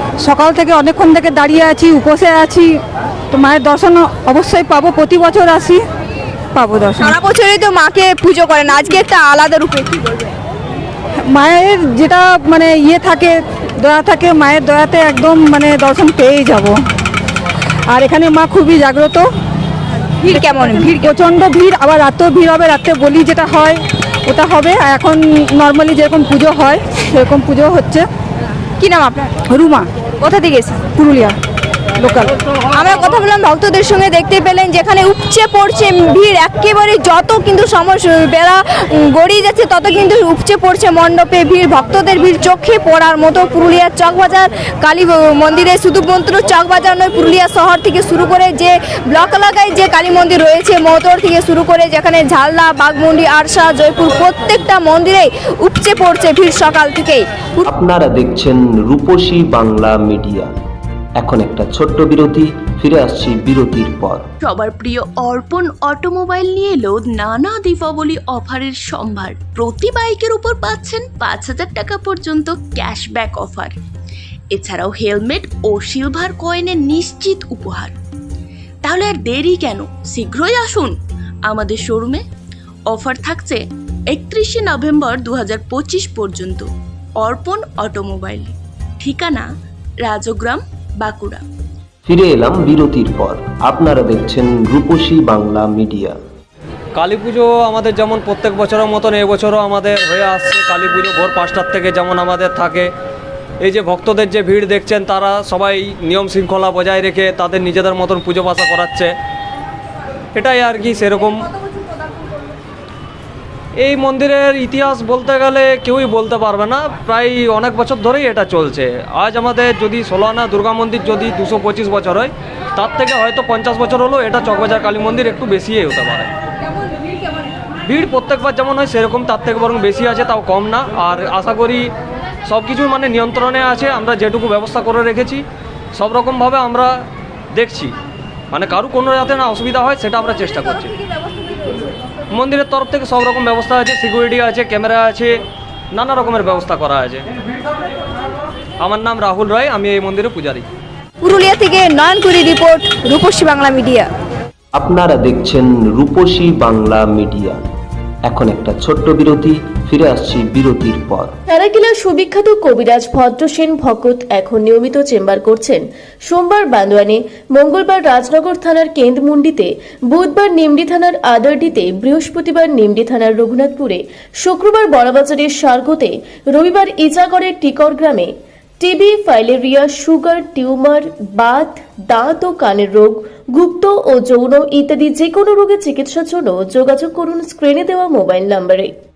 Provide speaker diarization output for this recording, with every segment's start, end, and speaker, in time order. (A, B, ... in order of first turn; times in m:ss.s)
0:00.2-0:05.8 A
0:06.5-0:07.1 A
0:07.0-0:10.3 B
0:11.2-0:16.8 A
0:17.9-0:19.3 A
0:20.2-0:21.1 B
0:20.3-0:28.1 A
0:28.8-0:29.3 B
0:29.5-0:29.9 A
0:30.2-0:30.8 B
0:30.8-0:31.4 A
0:32.0-0:32.3 A
0:32.7-0:57.6 B
0:57.7-1:00.5 C
1:01.2-1:04.2 C
1:04.4-1:13.8 D
1:14.5-1:18.0 D
1:18.8-1:22.2 D
1:22.9-1:29.5 D
1:30.0-1:31.4 D
1:32.0-1:36.2 C
1:37.0-1:42.9 E
1:43.6-1:49.1 E
1:50.3-1:51.5 E
1:53.8-2:06.3 E
2:07.8-2:11.9 E
2:12.5-2:15.4 E
2:15.9-2:17.0 E
2:17.5-2:17.9 E
2:18.5-2:20.9 E
2:22.3-2:25.4 E
2:25.9-2:27.3 E
2:28.8-2:30.6 E
2:31.2-2:34.1 B
2:34.8-2:37.6 C
2:38.2-2:41.3 C
2:41.5-3:08.9 F